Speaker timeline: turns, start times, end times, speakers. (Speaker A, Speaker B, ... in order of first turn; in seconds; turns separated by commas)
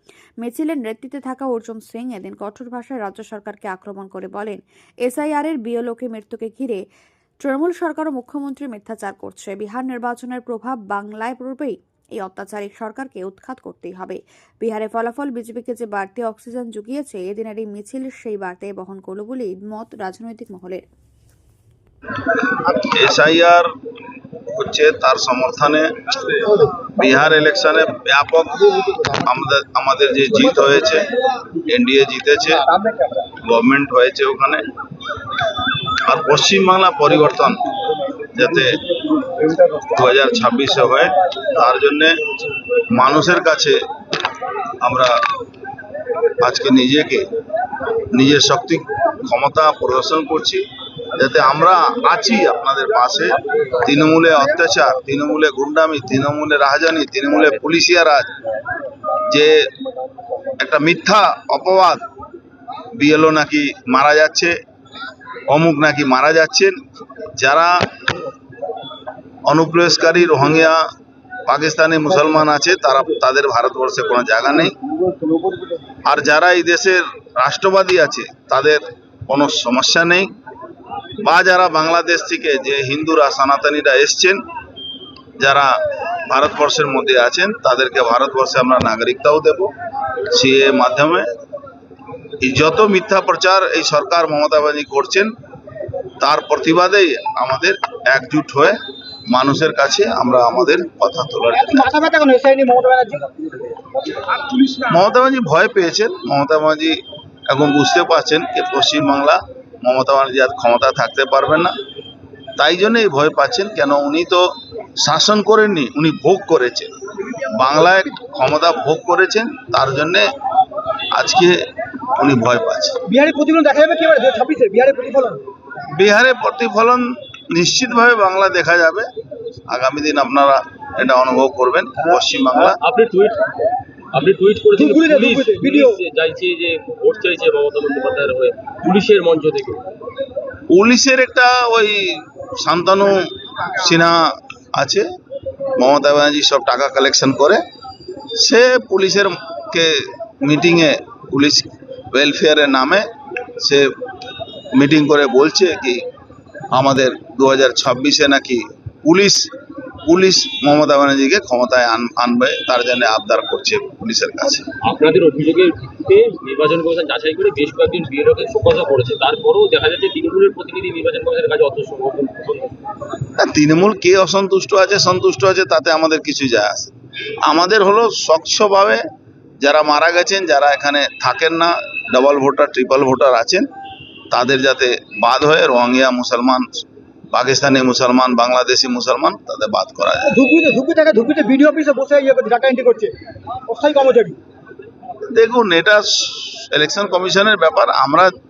Speaker A: 0.4-6.8, Speaker A: 7.4-20.8, Speaker B: 22.8-23.7, Speaker B: 24.6-31.1, Speaker B: 31.6-32.7, Speaker C: 32.7-33.2, Speaker B: 33.4-34.6, Speaker B: 36.0-37.6, Speaker B: 38.3-38.8, Speaker B: 39.9-42.2, Speaker B: 42.9-43.8, Speaker B: 44.8-45.2, Speaker B: 46.4-47.3, Speaker B: 48.1-58.3, Speaker B: 59.3-59.6, Speaker B: 60.6-62.0, Speaker B: 63.0-64.5, Speaker B: 65.5-66.8, Speaker B: 67.4-67.8, Speaker B: 69.5-70.8, Speaker B: 71.5-74.7, Speaker B: 76.0-80.3, Speaker B: 81.2-84.4, Speaker B: 85.4-85.7, Speaker B: 86.3-89.7, Speaker B: 90.3-91.3, Speaker B: 92.4-95.3, Speaker B: 96.2-98.8, Speaker B: 99.3-101.9, Speaker C: 101.5-103.8, Speaker B: 104.8-111.7, Speaker B: 112.6-114.5, Speaker B: 115.0-120.3, Speaker B: 121.1-123.0, Speaker C: 123.0-125.4, Speaker B: 125.9-129.1, Speaker B: 129.7-132.8, Speaker D: 132.7-133.4, Speaker D: 134.1-139.8, Speaker C: 134.8-136.0, Speaker B: 140.7-145.1, Speaker B: 145.8-147.6, Speaker B: 148.3-153.1, Speaker B: 153.6-153.9, Speaker B: 154.7-156.0, Speaker B: 156.7-159.5, Speaker B: 160.1-164.7, Speaker D: 164.8-172.8, Speaker B: 173.4-176.9, Speaker B: 177.4-179.0, Speaker B: 179.6-183.7, Speaker B: 184.3-190.4, Speaker C: 190.3-193.1, Speaker C: 193.7-194.4, Speaker B: 195.3-198.3